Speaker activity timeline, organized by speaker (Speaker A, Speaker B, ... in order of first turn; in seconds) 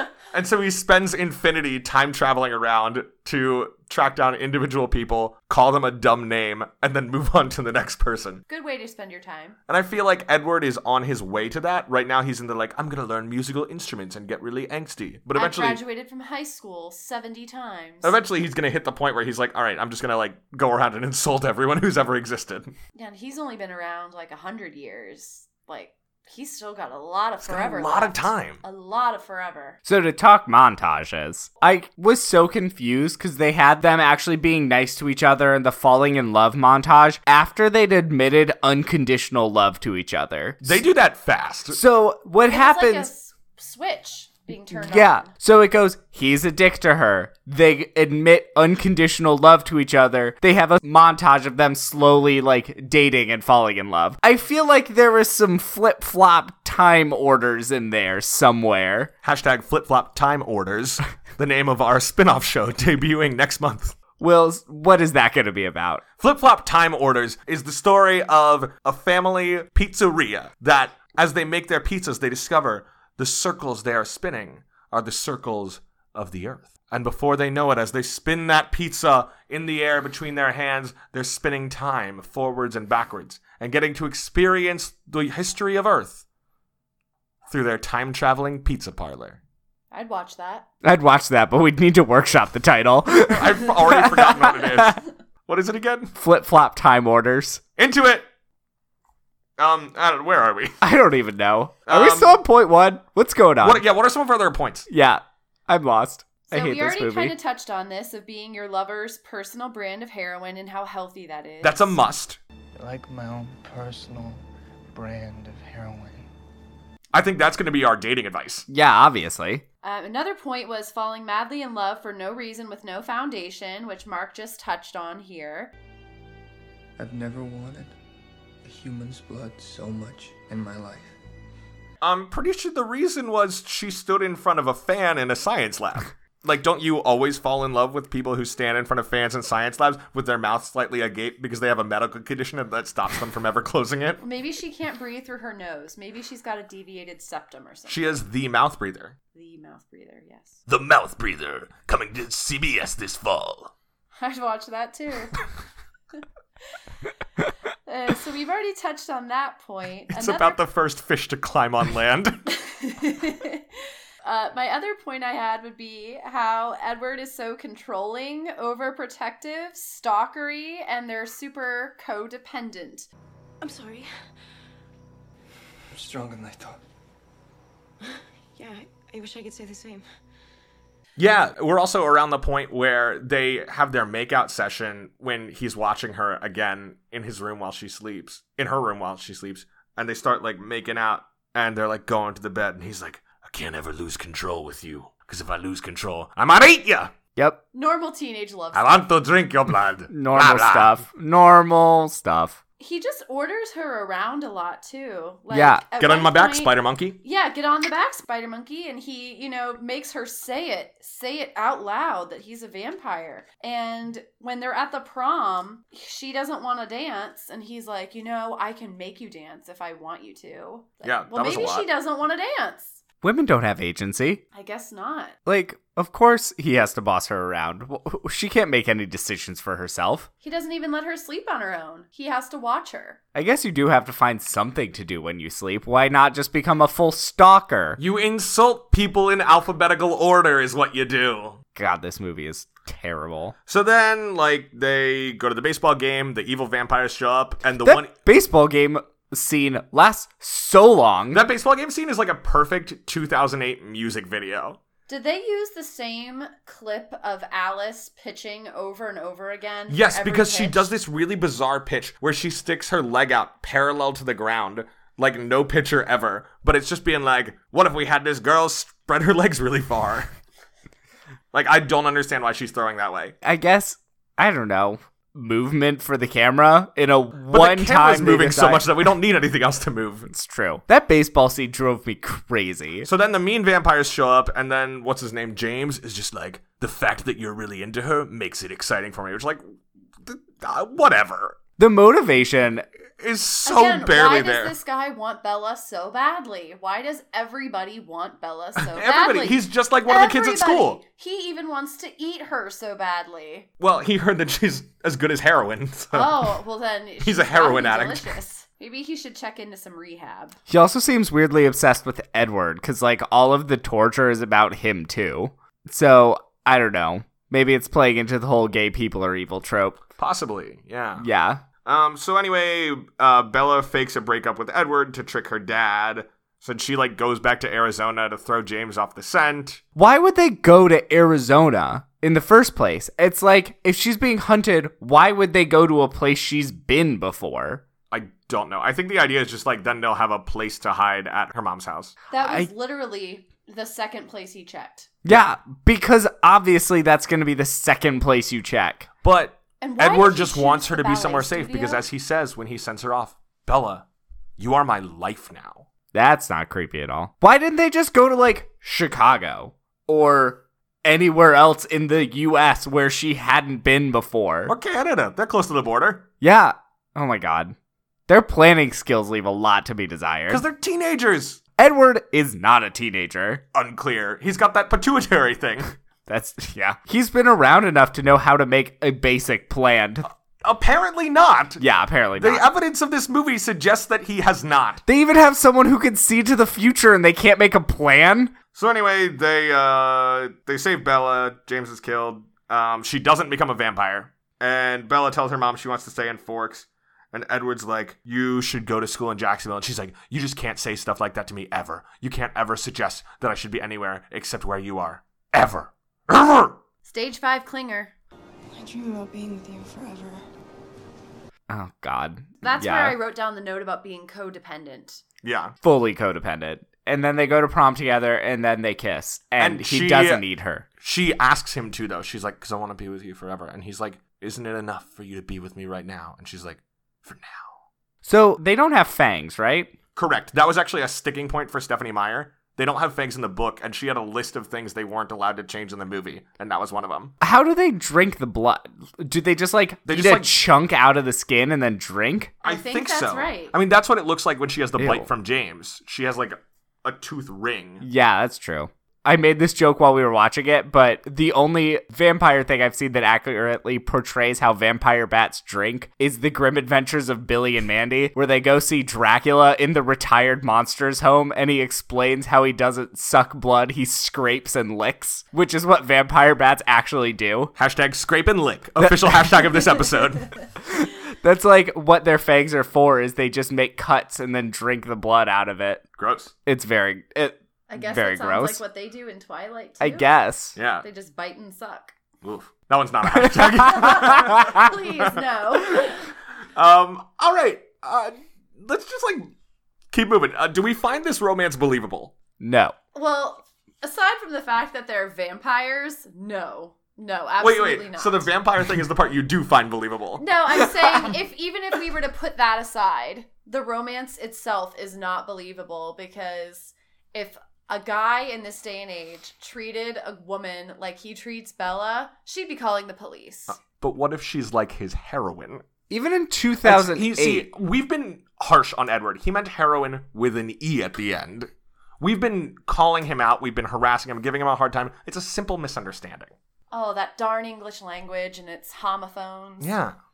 Speaker A: 0.3-8.4, 9.7-15.8, 18.0-22.7, 27.4-28.6, 40.6-41.8, 59.2-64.0, 66.2-86.2, 87.5-89.4, 93.3-96.1, 97.8-98.3, 99.6-100.8, 101.9-102.4, 103.6-104.9, 111.6-112.4, 117.1-118.7, 132.0-144.2, 147.9-149.1, 150.7-153.7, 160.1-162.4, 181.2-197.1, 198.7-200.9, 206.0-207.2, 221.0-221.9, 238.0-241.6, 243.7-248.1, 251.3-254.8, 259.9-270.3, 271.5-273.4, 277.5-280.3, 283.0-289.6, 290.2-291.6, 293.2-294.7, 298.8-301.0, 303.8-306.5, 307.2-308.3, 320.2-321.3, 321.8-329.8, 338.1-342.1, 349.2-354.1, 354.6-355.9, 364.7-366.3, 370.5-371.6, 373.7-375.9, 380.2-381.8, 382.4-385.0, 388.7-406.8, 415.4-415.7, 419.6-420.4, 421.0-427.7, 430.1-437.3, 440.1-440.5, 442.6-448.1, 467.8-470.5, 476.2-476.5, 480.8-481.0, 482.4-484.7, 486.8-489.5, 490.1-492.3, 497.6-500.4, 513.7-515.8, 516.8-526.5, 529.8-530.1
Speaker B: 8.5-9.6, 15.3-18.1, 22.9-29.8, 42.5-45.3, 89.9-90.7, 106.5-112.0, 119.8-125.7, 144.2-148.2, 149.3-150.6, 154.2-155.5, 157.9-160.6, 162.5-163.7, 164.2-173.1, 197.7-199.1, 202.8-223.0, 224.5-225.3, 230.4-233.2, 255.1-260.9, 293.6-303.7, 306.1-310.6, 342.3-345.1, 349.8-352.0, 407.0-408.1, 412.6-415.2, 442.6-443.7, 477.9-480.3, 481.0-482.1, 483.7-486.3, 493.1-498.5, 500.4-513.7, 526.9-529.9
Speaker C: 29.8-40.8, 41.7-43.1, 44.7-59.1, 64.2-66.0, 90.8-95.0, 96.1-97.6, 100.8-103.8, 104.9-107.3, 118.7-119.6, 200.1-202.6, 205.5-205.8, 223.2-224.4, 225.4-230.3, 233.3-238.0, 241.8-243.5, 247.8-251.4, 273.4-278.9, 280.3-283.1, 291.8-292.8, 310.7-320.0, 321.2-321.6, 329.9-337.8, 342.4-342.7, 345.2-349.1, 356.1-364.7, 366.4-367.8, 368.3-370.6, 371.8-373.6, 376.3-380.2, 381.8-382.6, 385.1-388.5, 411.7-413.2, 415.8-420.9, 428.2-429.9, 437.4-442.6, 445.0-445.3, 448.0-467.7, 469.0-469.3, 470.9-476.0, 476.6-478.8, 480.0-480.8, 483.3-484.9, 492.6-492.9, 516.1-517.7
Speaker D: 112.8-116.3, 127.0-127.9, 128.6-131.2, 175.9-176.8
Speaker E: 173.6-174.1, 178.6-180.0, 408.7-410.4